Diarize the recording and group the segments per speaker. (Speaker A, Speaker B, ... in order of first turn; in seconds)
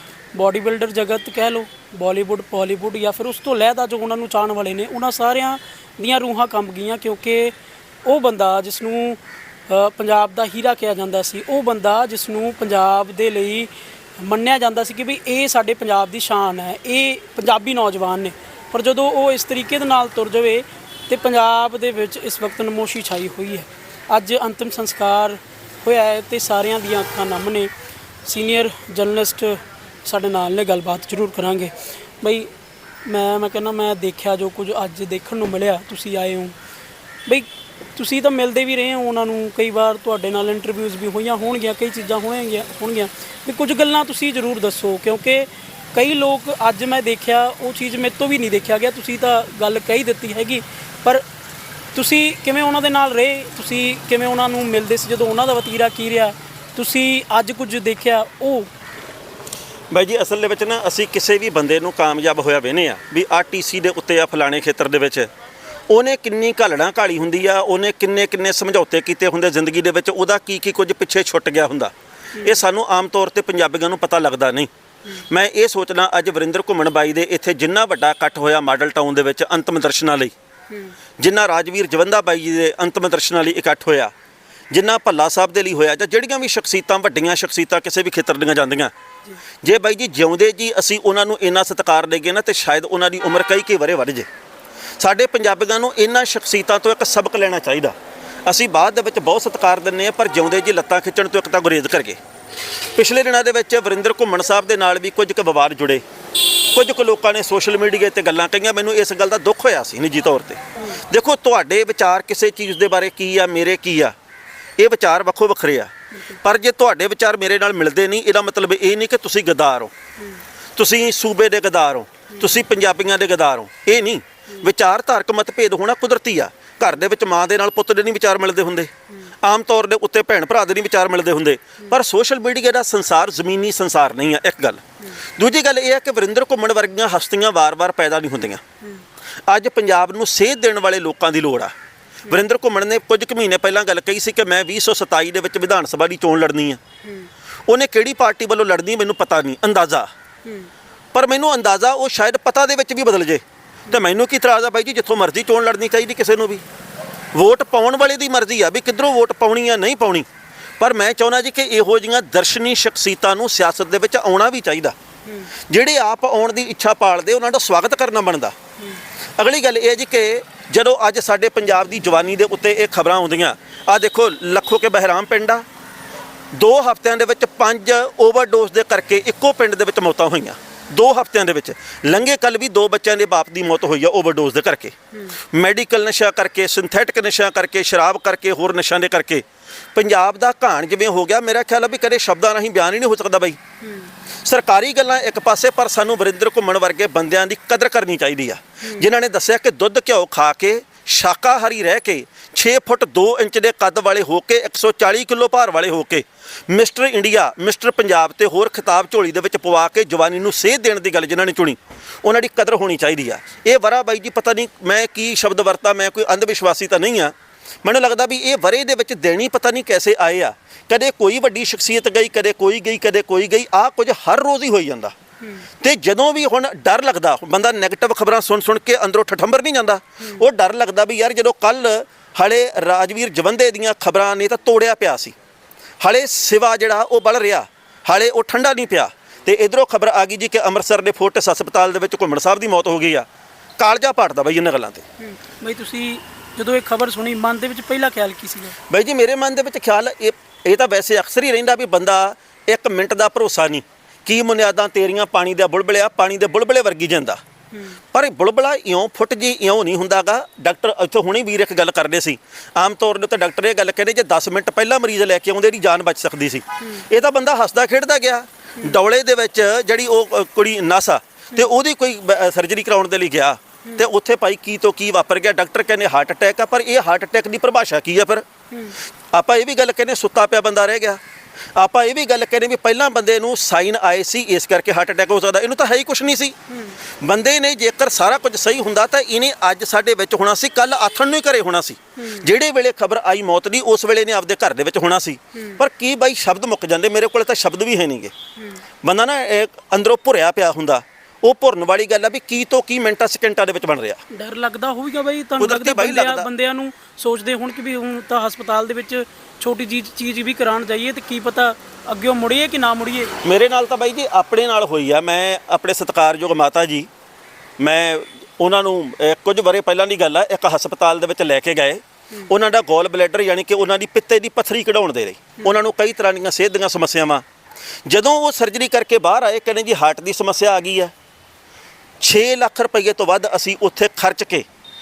Speaker A: 0.3-7.5, 8.1-27.7, 28.2-32.5, 33.0-36.5, 37.3-51.2, 51.9-58.7, 72.4-72.6, 150.4-150.7, 193.8-194.1, 245.2-248.8, 257.7-258.0, 286.7-287.0, 292.2-292.5, 304.3-313.3
Speaker B: 59.9-65.3, 65.9-74.7, 75.3-80.3, 81.2-84.1, 84.7-88.9, 89.6-94.3, 95.0-98.0, 98.5-102.2, 103.0-106.0, 106.7-114.1, 114.8-119.9, 120.8-128.9, 129.4-134.8, 135.4-138.6, 139.5-141.7, 142.3-146.8, 147.7-150.1, 151.1-156.6, 157.3-160.3, 160.8-164.9, 165.7-168.5, 169.4-175.6, 176.5-184.9, 185.5-189.4, 189.9-193.6, 194.4-225.1, 225.8-235.3, 236.0-243.3, 243.8-245.0, 248.9-257.4, 258.1-278.4, 279.3-281.2, 281.8-286.6, 287.2-298.3, 299.0-304.2, 305.6-306.5, 313.4-317.1, 317.8-327.4, 328.1-331.1, 332.2-334.7